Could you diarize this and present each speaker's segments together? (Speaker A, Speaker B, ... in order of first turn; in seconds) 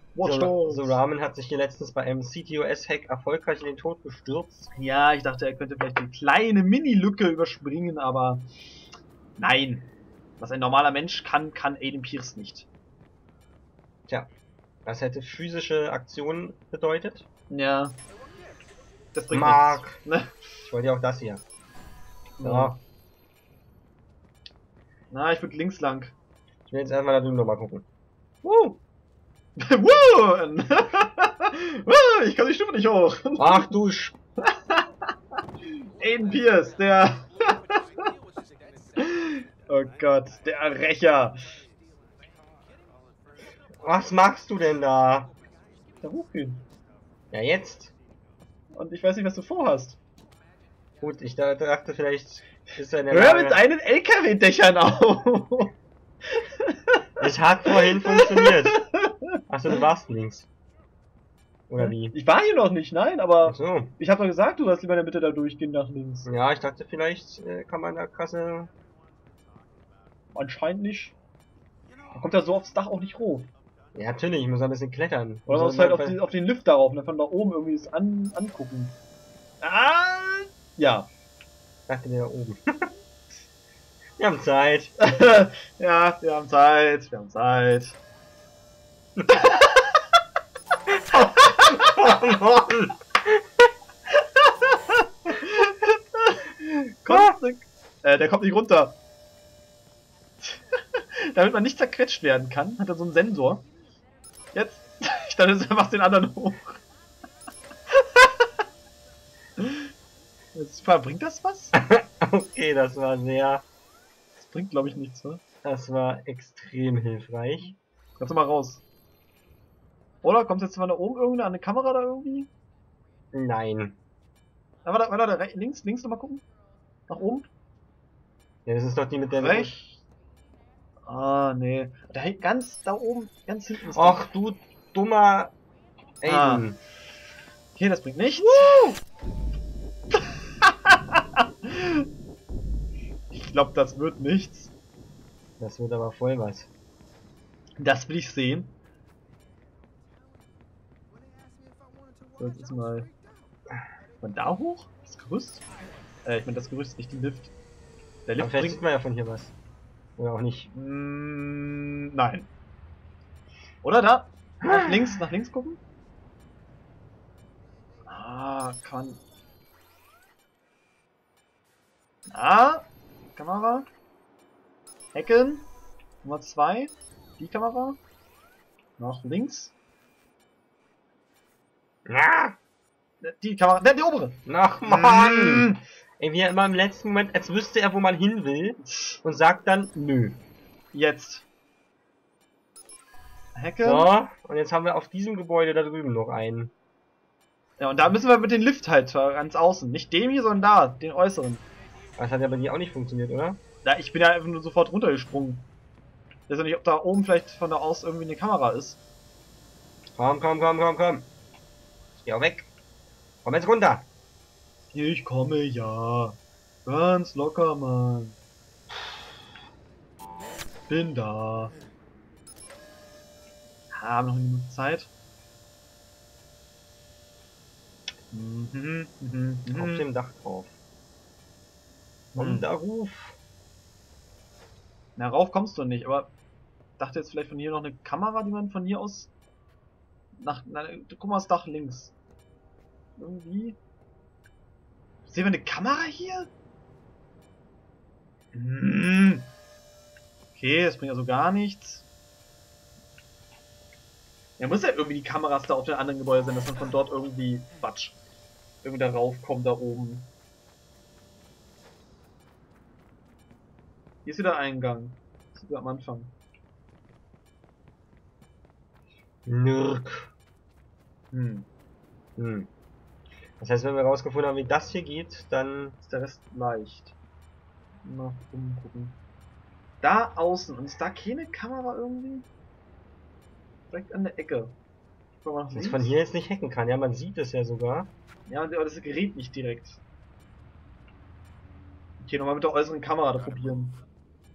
Speaker A: 0.1-1.0, 4.7-8.5, 9.4-12.7, 17.5-18.0, 19.1-20.3, 22.4-22.8, 25.1-26.1, 29.6-33.7, 34.4-35.1, 35.7-37.9, 39.0-41.5, 46.0-46.6, 48.7-50.0, 53.1-55.7, 56.3-57.1, 57.7-59.2, 61.8-66.3, 70.3-71.2, 72.1-73.5, 75.5-79.0, 79.6-81.1, 85.0-88.0, 89.3-89.9, 94.4-99.0, 100.4-103.7, 104.5-106.8, 107.9-108.5, 109.6-109.8, 110.5-111.7, 114.4-115.4, 118.2-118.8, 120.2-122.5, 124.8-126.4, 127.1-127.5, 129.4-130.0, 131.1-134.2, 136.2-136.7, 137.8-139.0, 140.6-142.1, 143.3-144.7, 147.8-148.7, 152.4-153.1, 154.2-155.6, 156.2-157.5, 158.3-158.8, 160.7-162.5, 163.8-165.8, 168.1-169.2, 172.3-173.9, 175.1-175.7, 176.2-178.0, 179.0-179.7, 183.2-185.8, 190.9-191.4, 193.5-194.1, 197.8-201.7, 203.8-205.7, 206.5-209.0, 214.9-218.4, 220.9-221.7, 223.9-225.1, 228.3-230.1, 232.3-232.7, 235.2-236.3, 237.0-239.3, 240.4-242.1, 243.2-243.8, 245.3-246.5, 248.5-249.5, 250.5-252.0, 254.6-258.2, 258.8-260.3, 264.2-266.4, 271.3-271.7, 276.0-277.1, 278.0-279.2, 280.0-282.5, 283.9-284.8, 285.4-286.1, 288.5-290.0, 292.2-294.0
Speaker B: 0.2-4.7, 14.8-17.2, 19.3-20.0, 20.6-21.4, 22.4-22.8, 26.7-27.9, 28.4-28.8, 33.4-34.2, 43.7-45.3, 47.3-47.9, 51.0-53.6, 57.2-58.9, 59.5-60.5, 61.7-62.2, 63.4-63.9, 66.2-68.7, 73.9-76.2, 81.9-82.8, 84.2-85.0, 91.1-93.4, 97.1-97.4, 111.7-113.6, 115.6-117.8, 123.3-124.0, 128.7-129.8, 133.9-135.5, 136.2-136.8, 138.4-138.8, 145.6-146.7, 158.4-159.5, 160.2-160.7, 164.6-165.0, 182.1-182.6, 184.4-190.4, 193.8-196.7, 202.2-203.6, 210.2-211.3, 212.2-212.7, 213.4-214.1, 229.7-230.7, 232.3-233.4, 269.4-270.3, 272.4-272.7, 273.6-276.0, 285.7-288.1